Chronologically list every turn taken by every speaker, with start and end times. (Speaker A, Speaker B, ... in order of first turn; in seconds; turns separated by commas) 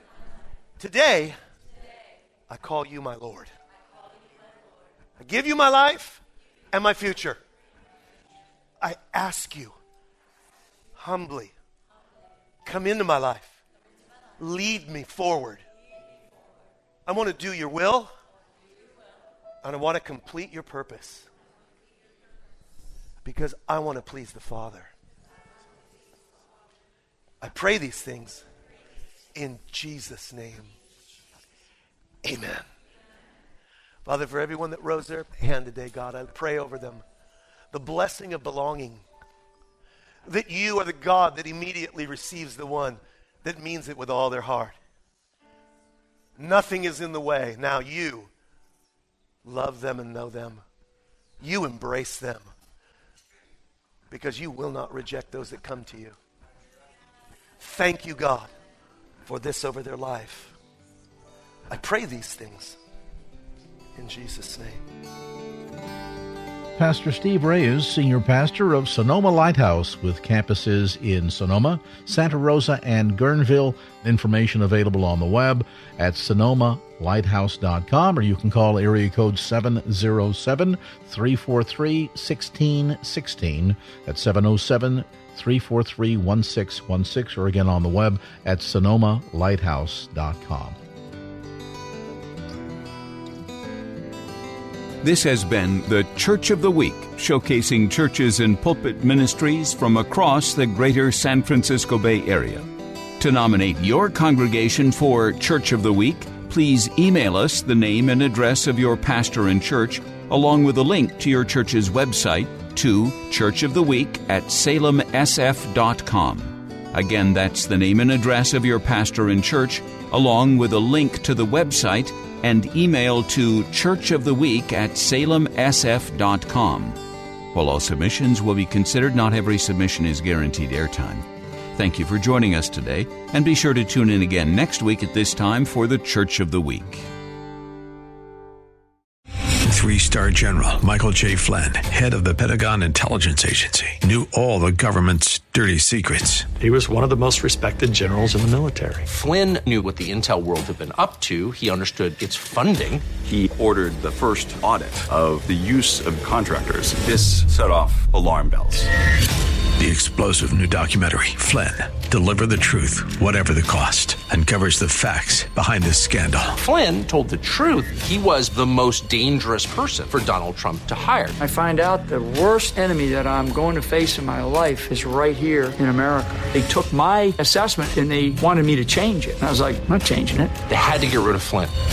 Speaker A: 0.8-1.4, Speaker A: 2.5-3.5, Speaker A: 5.2-6.2, Speaker A: 6.7-7.4, Speaker A: 8.8-9.8, Speaker A: 11.0-11.5, Speaker A: 12.7-13.6, Speaker A: 14.4-15.6, Speaker A: 17.1-18.1, Speaker A: 19.6-21.3, Speaker A: 23.2-24.9, Speaker A: 27.4-28.4, Speaker A: 29.4-30.7, Speaker A: 32.2-32.7, Speaker A: 34.1-37.0, Speaker A: 37.7-39.0, Speaker A: 40.3-44.8, Speaker A: 46.4-48.3, Speaker A: 49.5-50.6, Speaker A: 51.4-52.5, Speaker A: 54.1-56.2, Speaker A: 57.6-58.5, Speaker A: 59.3-60.6, Speaker A: 61.7-62.8, Speaker A: 64.0-64.8, Speaker B: 66.8-90.8, Speaker C: 95.0-102.7, Speaker C: 103.2-127.0, Speaker C: 127.5-137.1, Speaker D: 139.7-146.5, Speaker E: 146.6-149.1, Speaker F: 149.1-153.1, Speaker G: 153.1-158.9, Speaker D: 159.8-166.6, Speaker F: 166.6-171.4, Speaker H: 171.4-180.6, Speaker F: 180.7-181.7